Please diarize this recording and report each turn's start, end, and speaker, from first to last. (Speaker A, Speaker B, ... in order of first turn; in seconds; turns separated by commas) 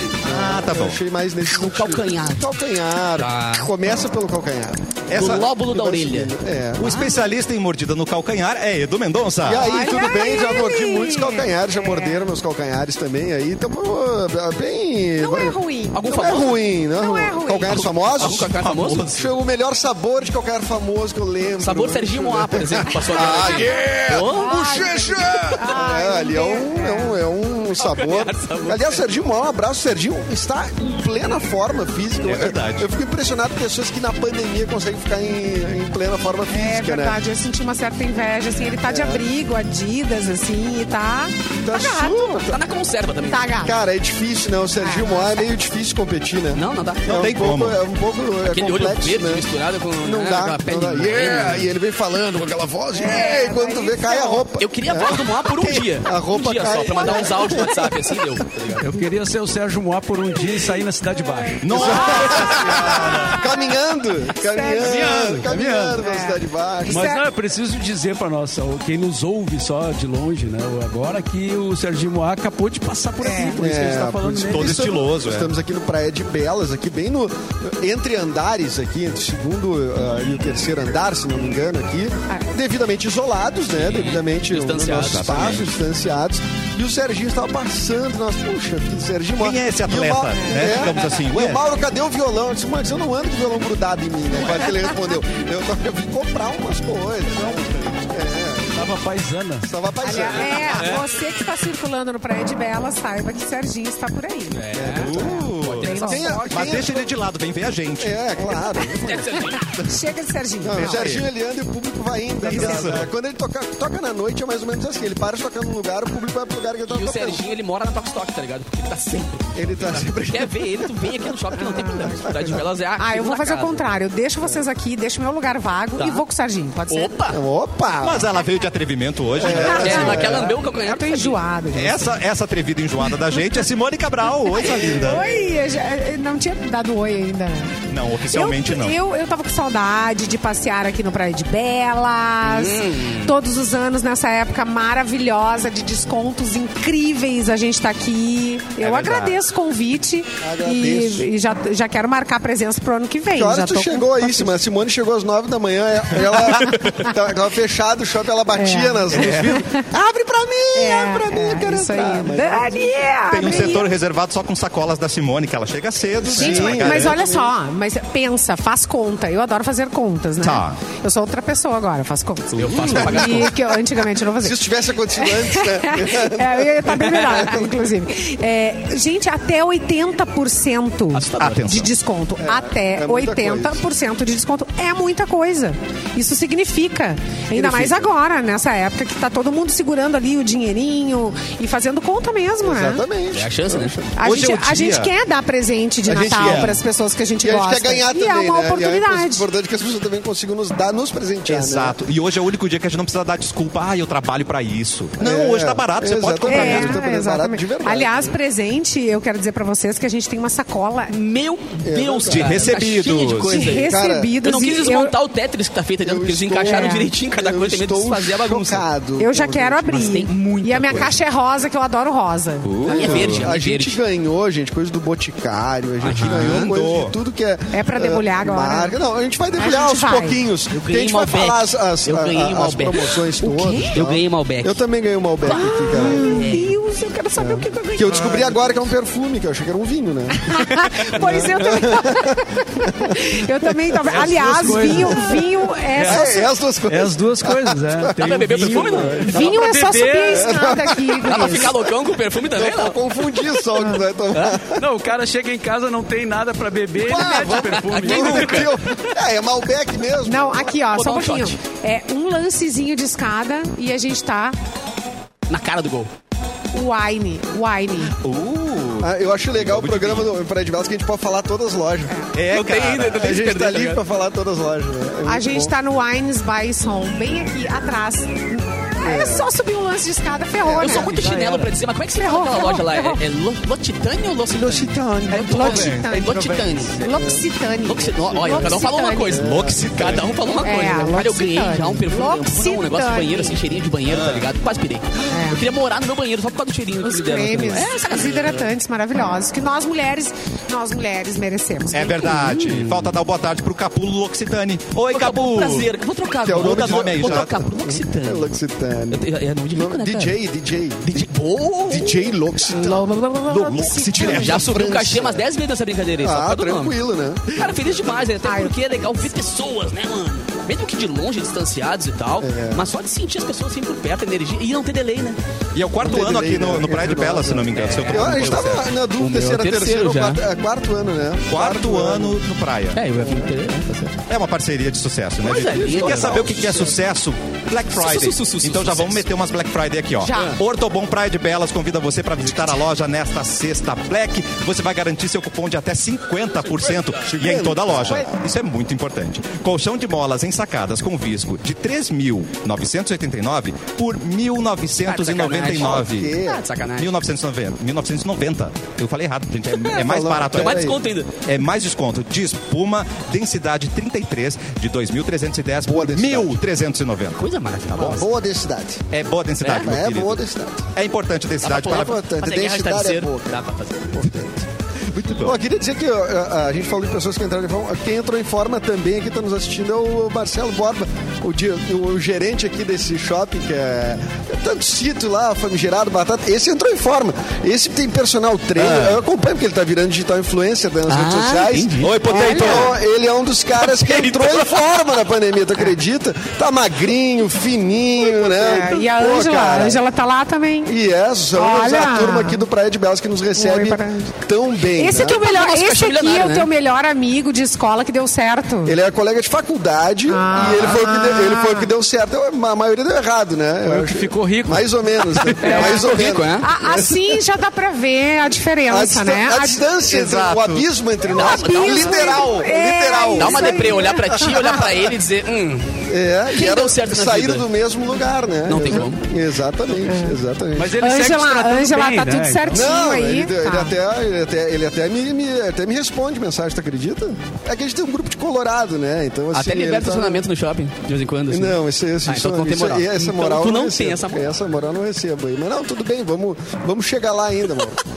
Speaker A: 0.2-7.0, Speaker B: 0.2-1.0, Speaker C: 1.5-2.5, Speaker C: 3.2-3.7, Speaker B: 5.1-5.5, Speaker C: 5.1-6.3, Speaker B: 6.8-9.8, Speaker D: 6.8-7.3, Speaker A: 9.4-37.2, Speaker D: 9.6-12.3, Speaker D: 15.2-16.0, Speaker C: 15.9-16.6, Speaker D: 17.0-17.8, Speaker C: 17.7-19.3, Speaker B: 17.8-19.2, Speaker C: 21.6-24.7, Speaker D: 24.2-27.2, Speaker C: 27.8-29.0, Speaker B: 32.2-32.9, Speaker D: 36.5-42.5, Speaker A: 38.9-39.2, Speaker A: 41.6-42.7, Speaker C: 42.5-43.7, Speaker D: 43.3-43.8, Speaker A: 43.6-49.5, Speaker D: 44.8-45.4, Speaker C: 46.5-47.3, Speaker B: 47.0-47.8, Speaker C: 48.5-51.7, Speaker A: 50.0-58.2, Speaker D: 52.9-54.5, Speaker C: 54.6-58.9, Speaker D: 57.1-57.5, Speaker E: 58.8-62.0, Speaker B: 61.6-63.4, Speaker D: 61.7-63.6, Speaker A: 61.7-67.1, Speaker D: 64.4-65.4, Speaker E: 64.8-66.0, Speaker D: 66.0-67.2, Speaker E: 66.9-74.9, Speaker D: 73.2-73.6, Speaker A: 73.6-99.0, Speaker B: 74.5-75.5, Speaker D: 82.3-82.5, Speaker C: 83.8-85.6, Speaker B: 85.0-85.7, Speaker B: 89.4-91.6, Speaker D: 90.3-90.8, Speaker E: 98.7-99.7, Speaker A: 99.6-101.0, Speaker D: 100.0-104.6, Speaker C: 104.5-106.0, Speaker A: 104.7-107.1, Speaker B: 104.9-106.0, Speaker D: 105.1-106.8, Speaker B: 106.5-108.6, Speaker A: 108.0-109.5, Speaker C: 108.9-109.7, Speaker D: 109.4-111.1, Speaker A: 110.6-117.4, Speaker B: 110.7-111.3, Speaker D: 112.4-113.0, Speaker B: 112.4-113.1, Speaker C: 116.9-123.9, Speaker A: 119.5-120.9, Speaker D: 121.6-127.2, Speaker A: 122.3-122.6, Speaker C: 126.0-126.2, Speaker C: 126.9-127.4, Speaker A: 127.3-128.3, Speaker B: 128.0-130.4, Speaker A: 129.4-130.6, Speaker D: 129.4-132.1, Speaker C: 129.4-131.4, Speaker B: 131.7-135.2, Speaker D: 134.5-154.6, Speaker A: 135.0-135.2, Speaker B: 137.9-139.0, Speaker C: 142.4-143.4, Speaker B: 148.8-149.4, Speaker A: 150.4-151.3, Speaker A: 153.3-163.8, Speaker D: 156.2-157.2, Speaker D: 158.5-159.9, Speaker B: 159.1-159.7, Speaker D: 160.7-163.9, Speaker B: 163.3-167.2, Speaker A: 166.2-167.5, Speaker D: 166.4-193.1, Speaker B: 170.4-170.8, Speaker C: 172.6-173.6, Speaker A: 172.8-173.8, Speaker A: 174.4-177.8, Speaker C: 181.1-181.8, Speaker B: 181.4-181.9, Speaker A: 182.4-183.8, Speaker A: 187.6-188.0, Speaker A: 192.6-194.1, Speaker C: 193.3-194.0, Speaker D: 194.2-199.5, Speaker B: 194.2-195.1, Speaker A: 196.1-196.8, Speaker B: 196.3-196.8, Speaker A: 197.4-202.0, Speaker B: 201.5-207.0, Speaker A: 205.2-208.3, Speaker D: 206.5-211.2, Speaker C: 211.1-218.8, Speaker A: 211.8-214.3, Speaker B: 212.3-213.6, Speaker D: 213.4-215.2, Speaker A: 216.0-220.2, Speaker D: 216.7-217.1, Speaker D: 219.2-222.7, Speaker C: 219.9-221.1, Speaker B: 222.6-223.5, Speaker A: 222.8-236.3, Speaker C: 222.9-224.0, Speaker C: 226.0-226.7, Speaker B: 226.1-227.1, Speaker D: 227.7-229.0, Speaker D: 229.6-230.4, Speaker C: 230.7-234.8, Speaker D: 233.6-233.9, Speaker C: 235.4-236.8, Speaker D: 235.5-238.4, Speaker A: 237.4-245.3, Speaker D: 240.4-246.4, Speaker C: 240.7-241.6, Speaker E: 244.1-245.4, Speaker E: 246.0-246.3, Speaker A: 246.0-249.6, Speaker E: 246.9-250.7, Speaker C: 248.2-249.4, Speaker D: 249.3-251.7, Speaker A: 250.3-251.8, Speaker C: 251.2-253.7, Speaker A: 252.4-254.8, Speaker C: 254.3-254.6, Speaker E: 254.8-258.7, Speaker A: 257.0-260.8, Speaker C: 257.2-259.2, Speaker D: 260.3-264.6, Speaker C: 260.9-261.6, Speaker C: 265.5-266.1, Speaker D: 266.7-268.1, Speaker B: 268.2-270.3, Speaker A: 269.0-272.1, Speaker B: 272.3-273.4, Speaker C: 272.5-274.0, Speaker A: 273.1-275.8, Speaker D: 275.2-281.1, Speaker A: 279.0-279.5, Speaker A: 280.6-281.2, Speaker C: 280.8-287.0, Speaker E: 280.9-281.7, Speaker D: 282.2-283.2, Speaker A: 284.5-287.5, Speaker D: 285.5-289.4, Speaker C: 287.8-298.7, Speaker A: 288.1-290.3, Speaker B: 289.4-290.4, Speaker D: 290.6-293.6, Speaker B: 294.1-294.5, Speaker D: 295.3-295.6, Speaker D: 297.0-302.3, Speaker B: 301.9-305.9, Speaker C: 302.2-303.1, Speaker C: 305.1-308.5, Speaker A: 306.4-311.3, Speaker B: 306.5-307.5, Speaker C: 309.1-310.4, Speaker C: 311.0-312.4, Speaker A: 311.9-313.1, Speaker D: 312.7-314.5, Speaker B: 313.5-314.7, Speaker A: 313.6-315.5, Speaker C: 314.1-317.0, Speaker A: 316.2-318.3, Speaker C: 317.5-325.4, Speaker D: 318.4-319.3, Speaker A: 322.4-322.9, Speaker B: 325.8-328.9, Speaker A: 326.0-332.4, Speaker C: 327.7-330.4, Speaker B: 331.5-333.0, Speaker C: 332.9-334.2, Speaker A: 333.2-333.5, Speaker B: 334.3-356.3, Speaker C: 335.4-336.9, Speaker A: 335.5-337.0, Speaker C: 337.9-339.3, Speaker D: 340.2-340.6, Speaker A: 347.3-348.3, Speaker C: 355.0-357.1, Speaker A: 355.7-356.6, Speaker B: 357.0-360.9, Speaker A: 359.9-361.0, Speaker C: 360.5-361.4, Speaker B: 361.4-368.2, Speaker A: 365.9-366.6, Speaker C: 367.4-368.3, Speaker A: 367.9-369.0, Speaker B: 369.1-370.4, Speaker C: 369.6-369.9, Speaker A: 369.8-370.9, Speaker B: 370.9-372.2, Speaker C: 371.6-374.3, Speaker A: 371.9-374.7, Speaker B: 375.1-375.6, Speaker A: 375.4-400.0, Speaker C: 388.8-389.2, Speaker C: 391.1-392.9, Speaker B: 392.0-392.9, Speaker D: 392.3-392.7, Speaker C: 393.8-394.8, Speaker D: 398.2-400.9, Speaker A: 400.9-405.4, Speaker D: 401.5-402.7, Speaker D: 403.6-404.3, Speaker D: 405.0-409.0, Speaker C: 405.3-406.7, Speaker A: 408.9-417.4, Speaker D: 410.3-411.9, Speaker E: 413.9-415.8, Speaker C: 415.6-416.7, Speaker D: 415.6-419.9, Speaker A: 418.9-425.1, Speaker B: 420.1-420.9, Speaker C: 421.3-422.5, Speaker D: 421.3-424.9, Speaker C: 423.3-427.7, Speaker A: 426.1-431.0, Speaker C: 428.7-429.2, Speaker D: 430.0-430.4, Speaker E: 430.8-432.9, Speaker D: 431.0-433.9, Speaker A: 432.7-440.5, Speaker C: 439.5-444.6, Speaker A: 441.5-448.0